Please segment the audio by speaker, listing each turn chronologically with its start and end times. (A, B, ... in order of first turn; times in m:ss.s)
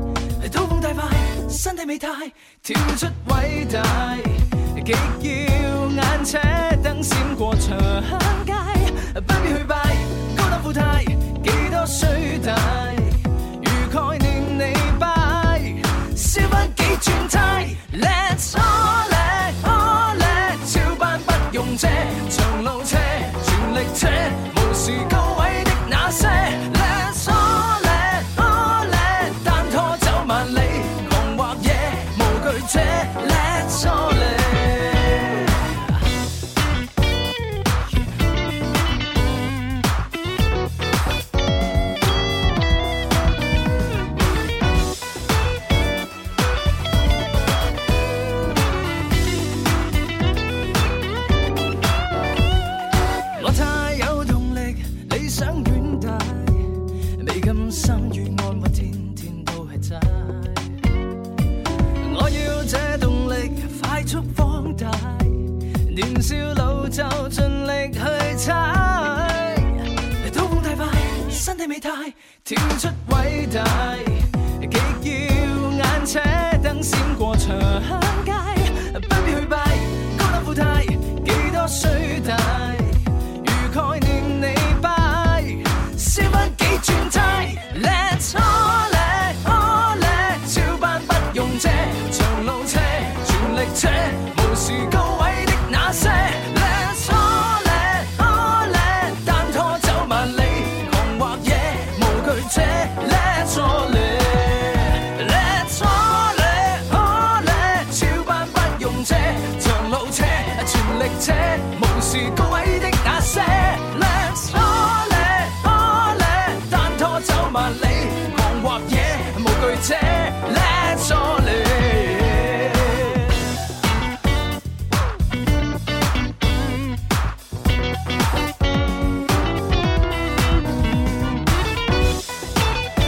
0:00.4-0:35.1 A
0:53.4-0:56.6 A
0:57.2-1:00.6 A
1:02.0-1:09.7 A
1:10.2-2:03.0 A